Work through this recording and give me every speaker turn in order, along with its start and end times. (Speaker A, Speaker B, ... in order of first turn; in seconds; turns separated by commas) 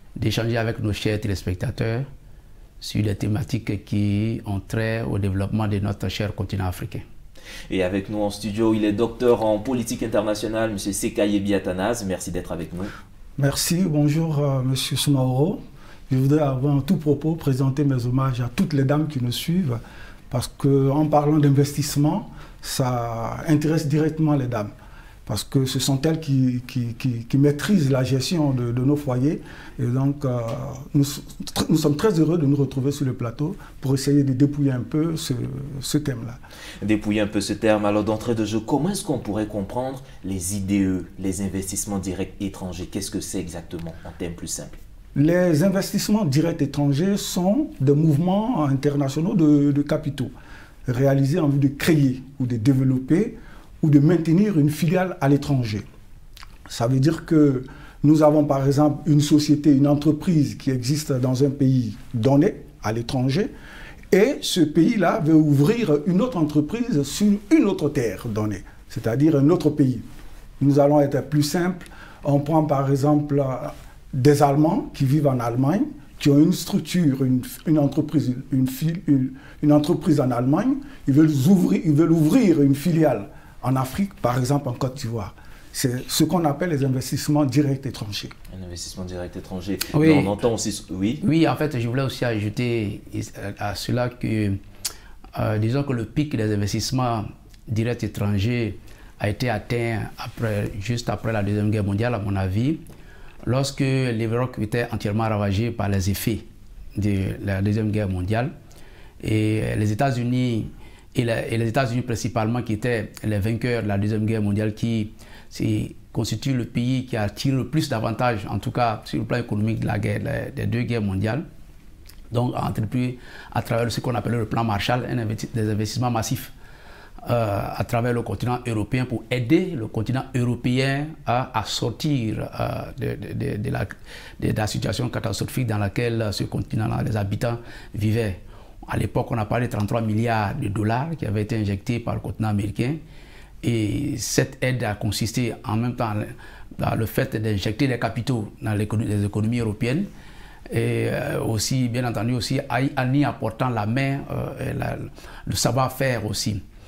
Speaker A: 0.1-2.1, Speaker A: 2.8-7.0, Speaker B: 7.7-12.9, Speaker C: 13.4-19.8, Speaker C: 20.3-24.7, Speaker C: 25.2-36.4, Speaker B: 36.8-44.8, Speaker C: 45.1-50.3, Speaker C: 50.9-55.9, Speaker C: 56.7-63.5, Speaker C: 64.1-70.0, Speaker C: 70.6-88.3, Speaker B: 88.5-91.2, Speaker A: 89.9-90.3, Speaker A: 91.2-94.6, Speaker A: 95.3-102.8, Speaker A: 103.5-106.4, Speaker A: 107.0-108.5, Speaker A: 109.2-121.4, Speaker A: 122.3-126.5, Speaker A: 127.2-143.0, Speaker A: 143.6-150.1, Speaker A: 150.7-156.6